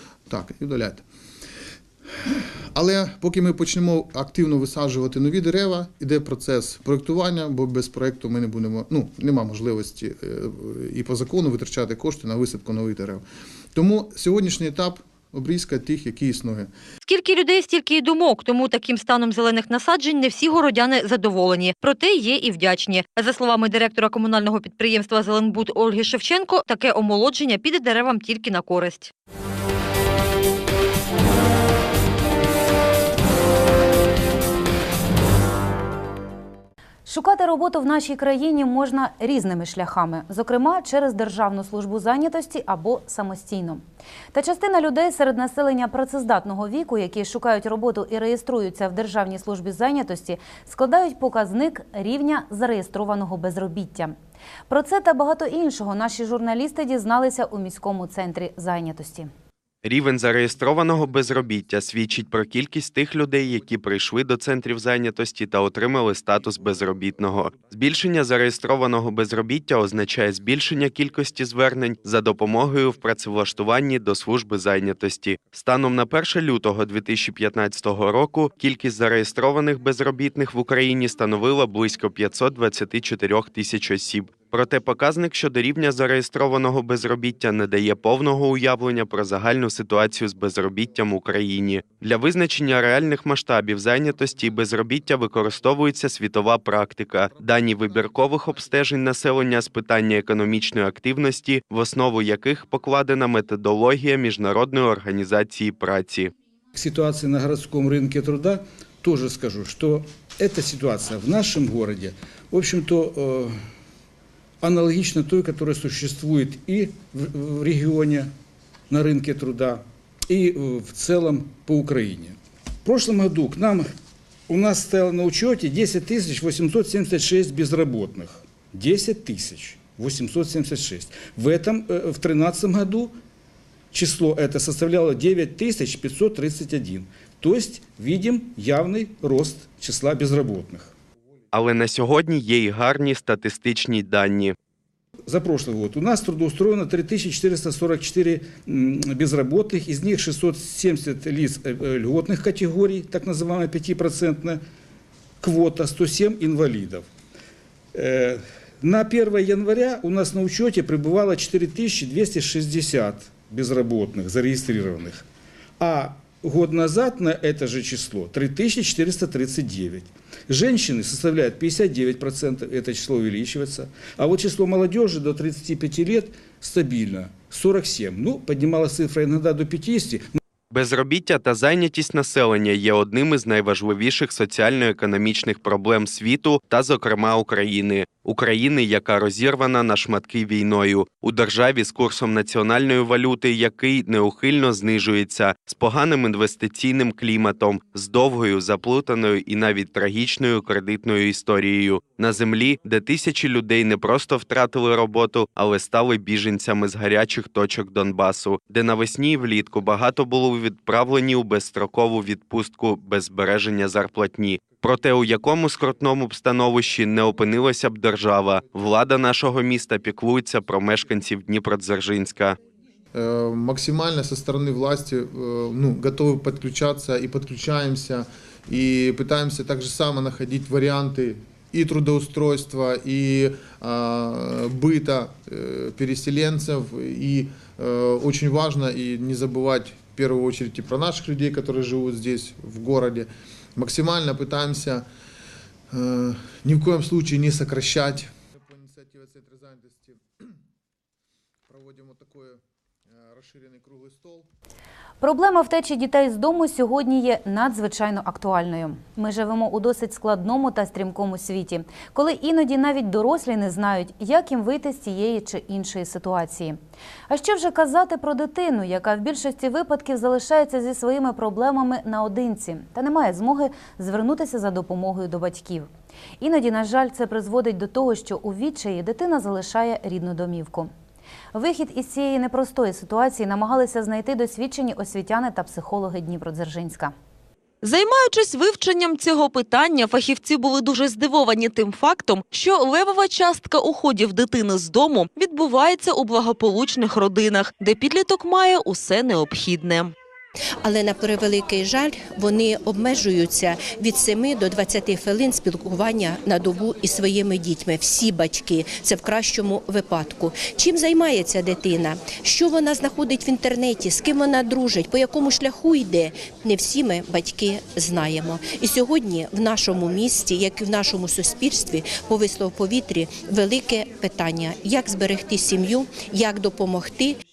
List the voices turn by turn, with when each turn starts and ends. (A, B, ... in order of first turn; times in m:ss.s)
0:00.3-0:01.0 A
0:02.2-0:16.7 A
0:17.0-0:29.1 B
0:37.0-0:54.1 C
0:54.7-0:59.3 C
0:59.8-1:46.3 D
1:46.7-1:53.6 E
1:54.6-1:58.3 E
1:58.9-2:03.9 E
2:04.5-2:13.1 E
2:13.9-2:20.9 E
2:21.5-2:24.6 D
2:25.2-2:34.6 E
2:35.4-2:37.1 E
2:37.9-2:45.2 E
2:45.8-3:00.3 E
3:00.7-3:42.6 D
3:43.1-4:05.0 A
4:05.9-4:10.5 A
4:11.7-4:14.4 A
4:15.2-4:26.8 C
4:27.3-4:35.9 C
4:36.4-4:40.9 C
4:41.5-4:47.1 C
4:47.8-5:00.1 F
5:00.8-5:27.4 G